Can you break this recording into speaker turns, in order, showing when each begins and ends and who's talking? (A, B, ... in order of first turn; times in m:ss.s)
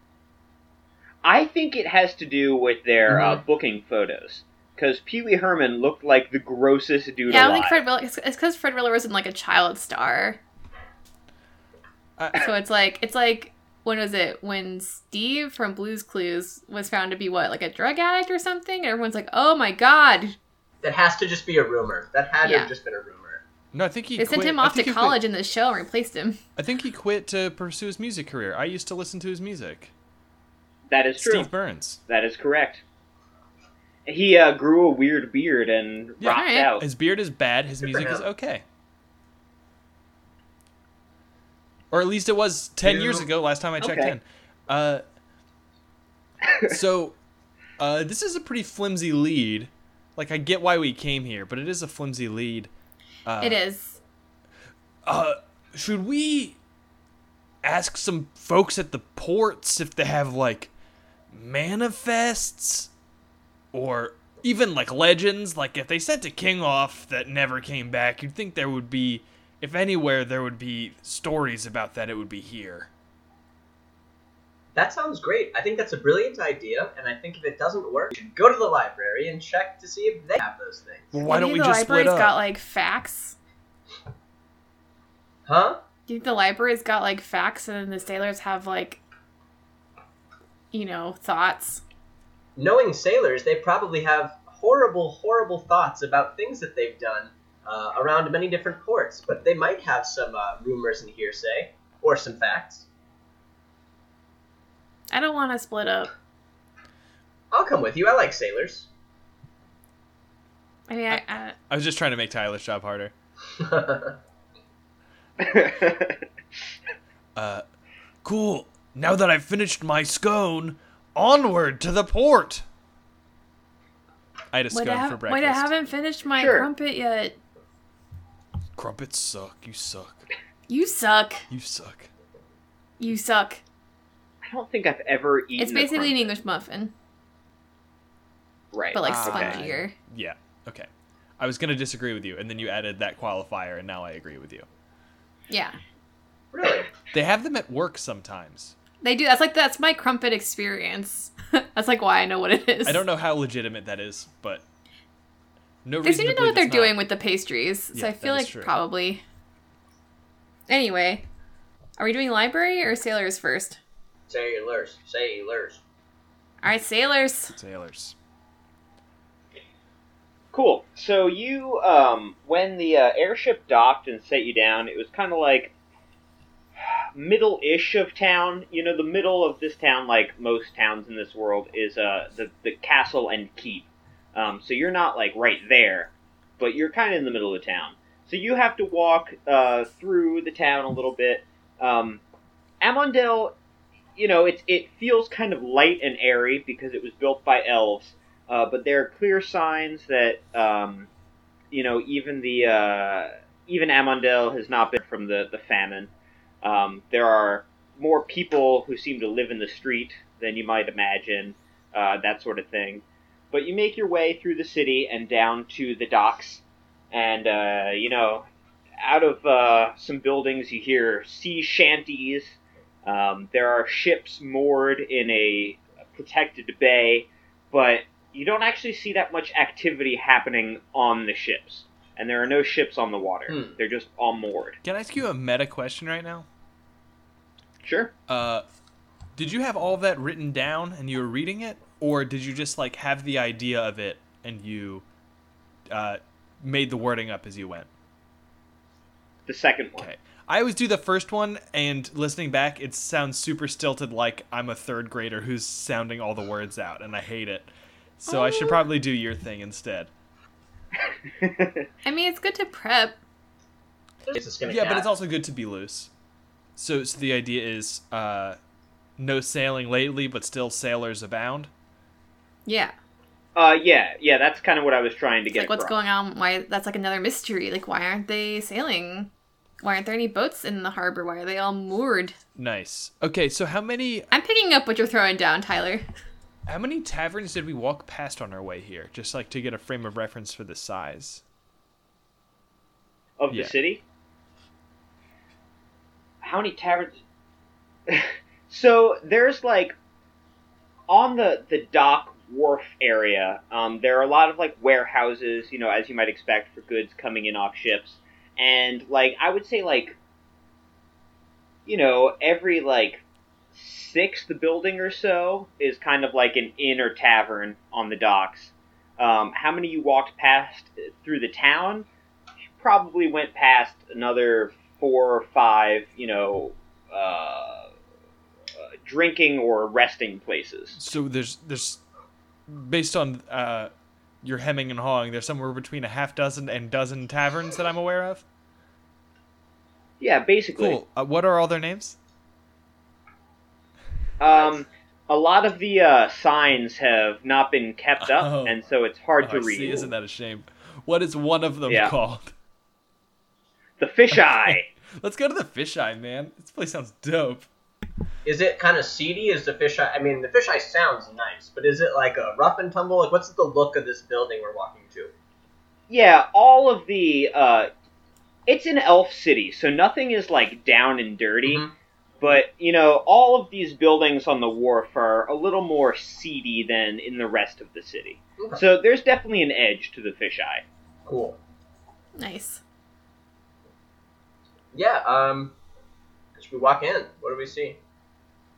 0:01.2-0:07.8 A
0:03.1-0:03.4 B
0:07.3-0:10.4 C
0:12.2-0:12.4 D
0:12.3-0:20.4 C
0:20.8-0:23.4 B
0:22.4-0:22.7 C
0:23.7-0:25.2 D
0:24.2-0:26.4 C
0:26.6-0:29.9 D
0:30.9-0:31.5 A
0:31.2-0:32.0 D
0:32.1-0:32.8 A
0:34.1-0:36.9 A
0:36.2-0:38.6 D
0:36.3-0:36.7 C
0:37.8-0:38.3 B
0:41.9-0:45.0 D
0:42.8-0:43.3 B
0:43.8-0:44.2 A
0:46.4-0:46.7 A
0:46.7-0:47.2 D
0:47.8-0:52.7 D
0:53.2-0:53.6 D
0:53.4-0:54.0 C
0:55.1-0:56.6 D
0:57.6-1:00.7 D
1:01.3-1:02.9 D
1:03.7-1:12.9 D
1:14.7-1:21.1 B
1:21.1-1:22.4 D
1:21.2-1:23.4 C
1:25.4-1:25.8 B
1:26.1-1:29.0 C
1:30.7-1:31.8 C
1:32.6-1:42.9 B
1:45.1-1:46.1 C
1:47.5-1:48.9 B
1:50.9-1:51.6 C
1:51.1-1:53.1 D
1:53.6-1:54.2 B
1:55.4-1:56.2 A
1:57.4-1:57.6 D
1:58.2-2:02.6 D
2:04.5-2:05.7 D
2:04.7-2:07.4 C
2:06.4-2:06.7 A
2:08.8-2:10.2 D
2:10.7-2:11.4 C
2:11.5-2:12.1 D
2:13.0-2:13.6 C
2:14.4-2:16.3 A
2:15.6-2:16.9 C
2:18.7-2:19.6 A
2:18.9-2:19.9 C
2:19.0-2:24.7 D
2:25.5-2:25.8 C
2:26.5-2:26.9 B
2:27.1-2:28.7 D
2:29.0-2:33.0 C
2:32.9-2:34.6 D
2:35.8-2:37.0 D
2:36.0-2:39.2 C
2:37.9-2:38.7 D
2:40.7-2:41.2 C
2:42.0-2:43.8 C
2:44.3-2:45.8 B
2:46.6-2:47.5 C
2:47.5-2:48.1 D
2:50.5-2:55.7 A
2:57.1-3:12.2 A
3:12.8-3:13.6 A
3:14.2-3:21.1 A
3:21.7-3:38.5 A
3:39.0-3:54.8 A
3:53.5-3:53.8 B
3:54.8-3:56.5 D
3:57.8-3:58.1 A
3:58.3-3:58.6 D
3:59.4-4:05.0 D
4:05.9-4:07.9 D
4:09.5-4:10.1 A
4:10.0-4:20.1 D
4:18.3-4:18.9 C
4:21.4-4:21.9 A
4:22.0-4:23.2 C
4:24.3-4:25.1 B
4:24.6-4:26.1 D
4:26.8-4:28.6 D
4:29.2-4:31.7 D
4:32.6-4:32.9 C
4:33.6-4:35.9 A
4:35.6-4:39.3 C
4:39.8-4:42.4 C
4:42.6-4:44.3 D
4:44.3-4:46.0 C
4:46.7-4:51.4 D
4:53.4-4:54.0 A
4:56.4-4:57.2 A
4:58.1-4:59.9 A
5:01.1-5:10.2 A
5:11.9-5:22.1 A
5:22.8-5:27.9 A
5:28.8-5:31.0 A
5:30.9-5:32.0 D
5:32.7-5:38.4 D
5:40.2-5:41.0 A
5:40.8-5:42.2 D
5:44.4-5:50.1 A
5:48.2-5:48.8 D
5:49.4-5:52.5 D
5:51.9-5:52.1 A
5:54.0-5:54.9 A
5:54.3-5:57.7 D
5:58.4-6:05.3 B
6:06.1-6:07.9 A
6:08.7-6:11.9 A
6:11.6-6:11.9 B
6:12.4-6:20.8 A
6:21.2-6:21.6 B
6:22.4-6:22.8 C
6:24.9-6:25.7 B
6:26.6-6:28.0 B